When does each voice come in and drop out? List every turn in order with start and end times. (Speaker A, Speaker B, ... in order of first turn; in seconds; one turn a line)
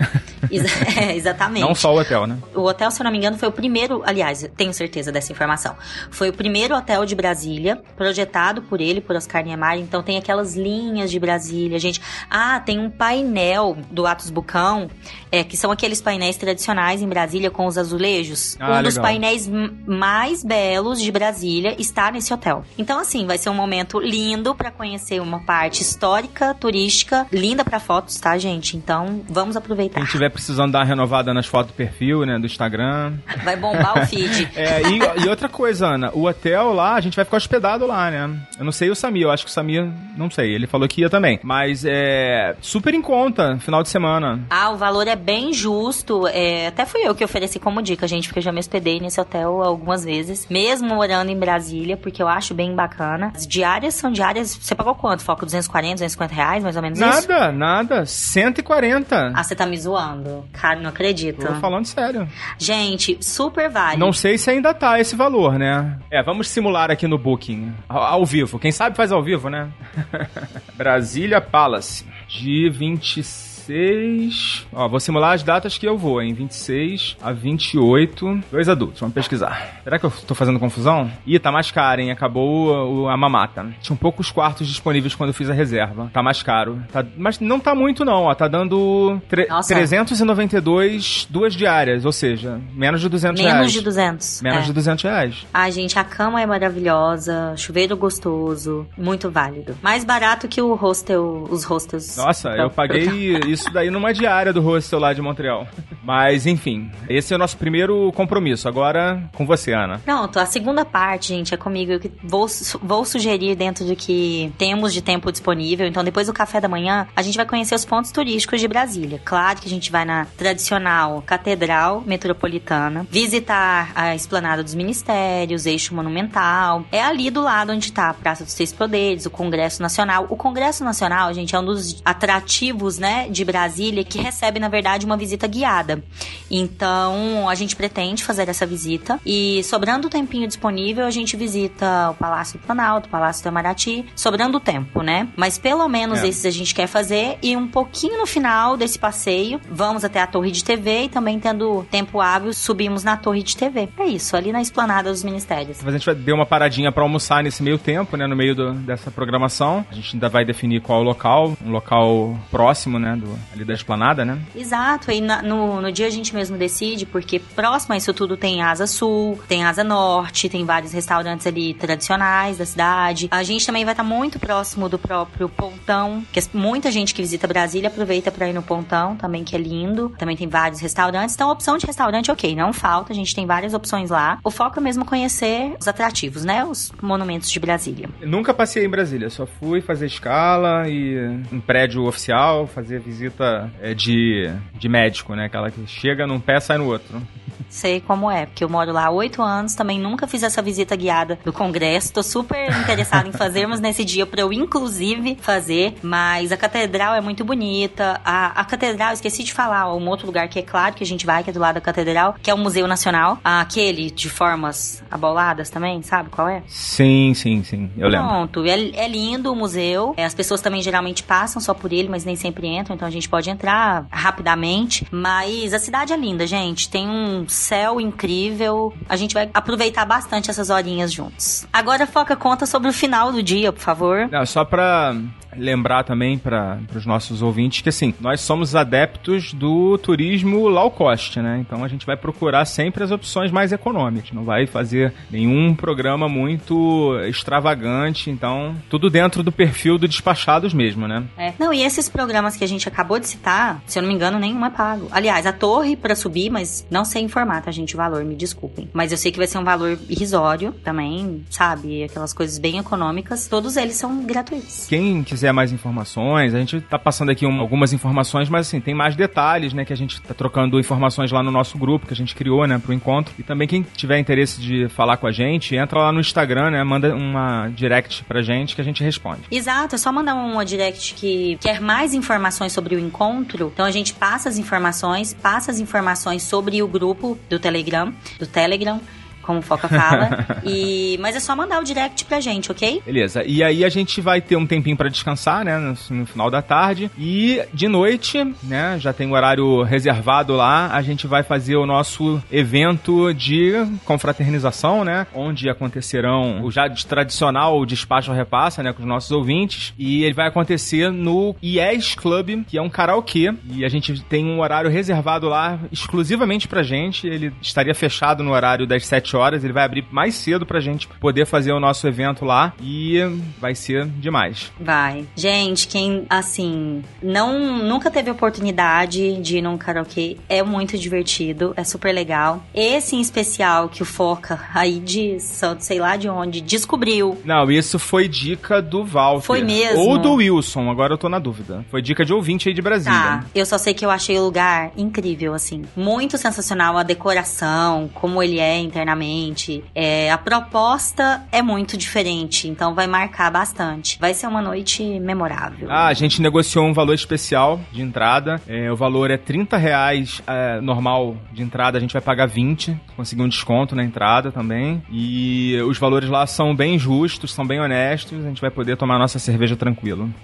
Speaker A: 0.5-1.9
Speaker B: 1.6-2.4
Speaker A: 2.5-30.2
Speaker B: 18.6-19.2
Speaker B: 30.0-44.5
Speaker A: 33.4-35.1
Speaker A: 44.5-57.3
Speaker B: 56.9-59.4
Speaker A: 59.3-61.7
Speaker B: 61.4-62.3
Speaker A: 62.6-64.2
Speaker B: 63.9-93.9
Speaker A: 89.5-89.9
Speaker A: 93.3-94.7
Speaker B: 94.4-95.5
Speaker A: 95.5-103.2
Speaker B: 102.2-110.0
Speaker A: 110.1-155.8
Speaker B: 146.1-146.4
Speaker B: 155.8-164.5
Speaker A: 164.5-188.2
Speaker B: 188.2-197.3
Speaker A: 197.7-216.7
Speaker B: 216.7-218.3
Speaker A: 218.1-234.3
Speaker B: 234.3-251.3
Speaker A: 251.4-264.9
Speaker B: 264.9-279.5
Speaker A: 279.5-293.0
Speaker B: 289.9-290.6
Speaker B: 293.1-324.7
Speaker A: 324.8-337.4
Speaker B: 337.4-343.5
Speaker A: 339.4-340.4
Speaker A: 343.0-356.3
Speaker B: 355.9-370.3